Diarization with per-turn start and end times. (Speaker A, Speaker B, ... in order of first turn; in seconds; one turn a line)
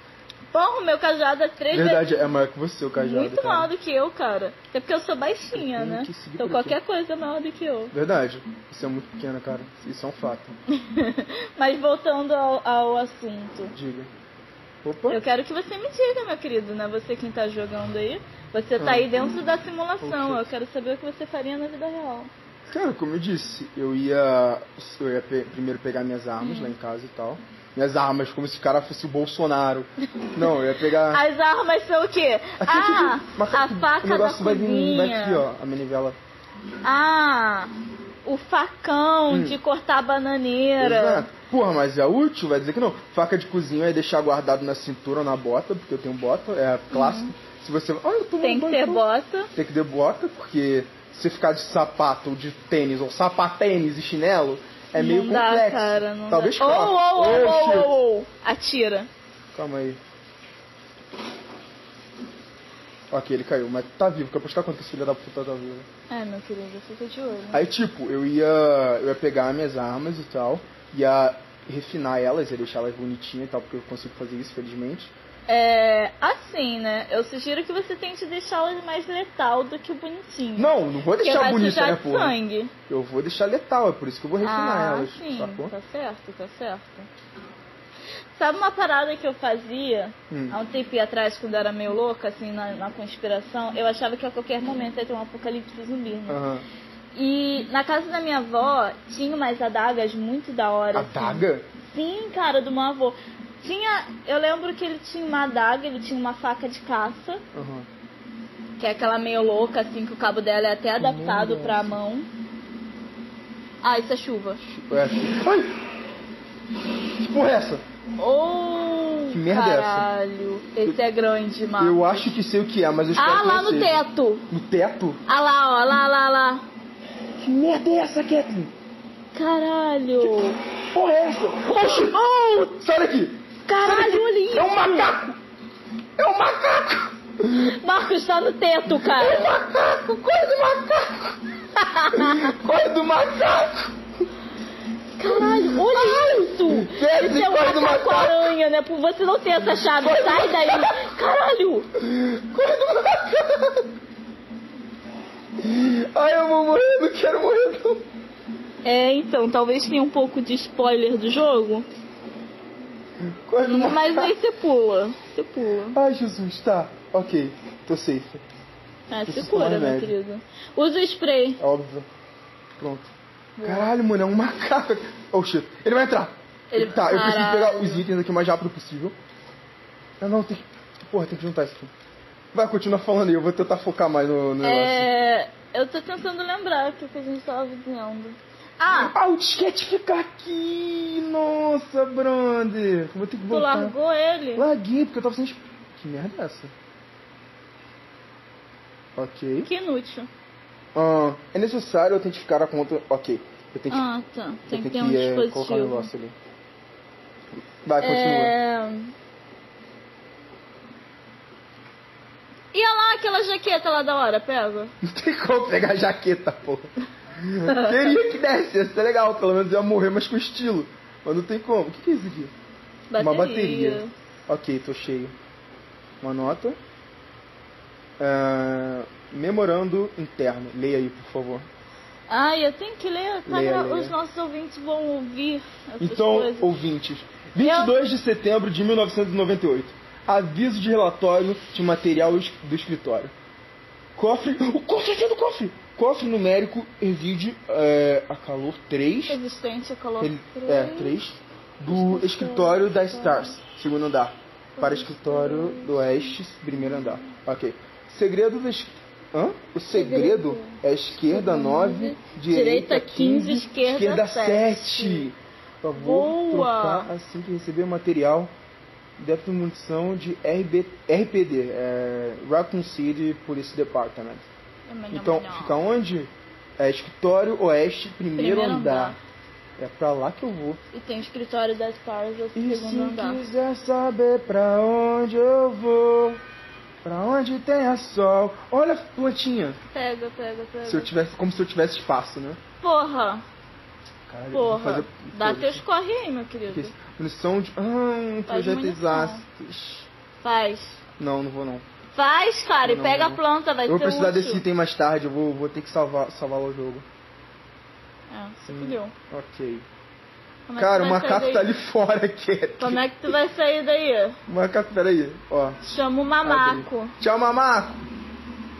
Speaker A: 0.5-2.3
Speaker B: 1.7-3.7
Speaker A: 3.0-7.9
Speaker B: 5.5-6.8
Speaker B: 7.9-10.5
Speaker A: 10.7-13.7
Speaker B: 13.7-14.1
Speaker B: 14.8-15.2
Speaker A: 15.1-22.3
Speaker B: 18.8-19.1
Speaker B: 20.0-20.5
Speaker B: 22.7-31.2
Speaker A: 26.4-26.7
Speaker A: 31.1-35.4
Speaker B: 32.6-36.2
Speaker A: 36.8-37.7
Speaker A: 38.2-41.3
Speaker B: 39.3-39.6
Speaker B: 40.8-49.0
Speaker A: 46.9-47.3
Speaker A: 48.4-49.5
Speaker B: 49.5-58.0
Speaker A: 55.0-59.1
Speaker B: 59.5-60.0
Speaker B: 63.1-65.9
Speaker A: 66.1-67.6
Speaker B: 67.5-75.1
Speaker A: 75.5-82.7
Speaker B: 80.5-82.3
Speaker B: 82.9-85.7
Speaker A: 84.4-87.1
Speaker A: 88.3-96.4
Speaker B: 90.3-90.6
Speaker B: 96.3-96.6
Speaker A: 97.1-107.4
Speaker B: 100.9-101.7
Speaker B: 107.5-107.8
Speaker A: 108.8-112.3
Speaker B: 111.0-112.0
Speaker A: 113.8-114.6
Speaker B: 114.7-115.8
Speaker B: 117.1-117.8
Speaker A: 118.2-122.3
Speaker B: 119.3-120.1
Speaker B: 121.8-125.2
Speaker A: 123.2-124.5
Speaker A: 125.2-126.6
Speaker B: 127.4-128.7
Speaker A: 129.3-130.6
Speaker B: 130.2-135.4
Speaker A: 133.7-135.1
Speaker B: 136.2-137.8
Speaker A: 137.5-139.6
Speaker B: 138.9-141.4
Speaker A: 141.8-142.6
Speaker B: 142.1-144.0
Speaker A: 145.2-151.9
Speaker B: 145.2-148.5
Speaker B: 150.0-151.0
Speaker B: 151.9-153.9
Speaker B: 155.6-158.0
Speaker A: 158.8-161.8
Speaker B: 163.2-164.3
Speaker A: 163.6-166.0
Speaker B: 165.9-168.4
Speaker A: 169.1-171.6
Speaker B: 169.3-170.1
Speaker B: 171.6-172.1
Speaker B: 172.8-173.1
Speaker A: 173.6-173.8
Speaker B: 173.6-179.1
Speaker A: 176.7-178.0
Speaker B: 180.2-181.9
Speaker B: 182.5-185.1
Speaker A: 184.6-189.1
Speaker B: 188.9-193.9
Speaker A: 193.5-194.7
Speaker B: 194.6-196.7
Speaker B: 199.2-199.7
Speaker A: 199.6-200.3
Speaker B: 200.9-204.1
Speaker A: 203.9-206.1
Speaker B: 204.7-206.3
Speaker B: 207.8-208.5
Speaker A: 208.0-209.1
Speaker A: 212.7-214.9
Speaker B: 215.0-222.5
Speaker A: 217.6-218.2
Speaker A: 223.1-224.1
Speaker B: 223.2-225.3
Speaker B: 226.2-226.8
Speaker B: 228.2-231.7
Speaker A: 232.3-236.7
Speaker B: 233.4-234.2
Speaker B: 236.0-243.3
Speaker A: 237.6-238.0
Speaker B: 244.2-249.4
Speaker A: 249.3-251.2
Speaker B: 250.2-268.5
Speaker A: 251.9-253.6
Speaker A: 254.8-256.4
Speaker A: 259.9-265.3
Speaker A: 265.9-267.1
Speaker B: 269.2-274.5
Speaker A: 274.9-275.8
Speaker B: 275.1-279.1
Speaker A: 278.4-279.2
Speaker B: 279.8-280.8
Speaker A: 280.9-283.4
Speaker B: 282.5-286.4
Speaker B: 287.0-289.8
Speaker A: 289.9-291.1
Speaker B: 290.8-292.6
Speaker A: 292.8-293.4
Speaker B: 294.3-295.8
Speaker A: 294.5-296.9
Speaker B: 296.7-300.1
Speaker A: 298.5-299.4
Speaker A: 300.4-301.0
Speaker B: 301.2-301.8
Speaker A: 302.1-304.6
Speaker B: 302.8-307.0
Speaker A: 308.3-309.1
Speaker B: 308.7-309.8
Speaker A: 310.7-311.7
Speaker B: 310.8-313.3
Speaker A: 312.8-314.4
Speaker B: 314.5-315.8
Speaker A: 315.8-317.1
Speaker B: 316.4-318.0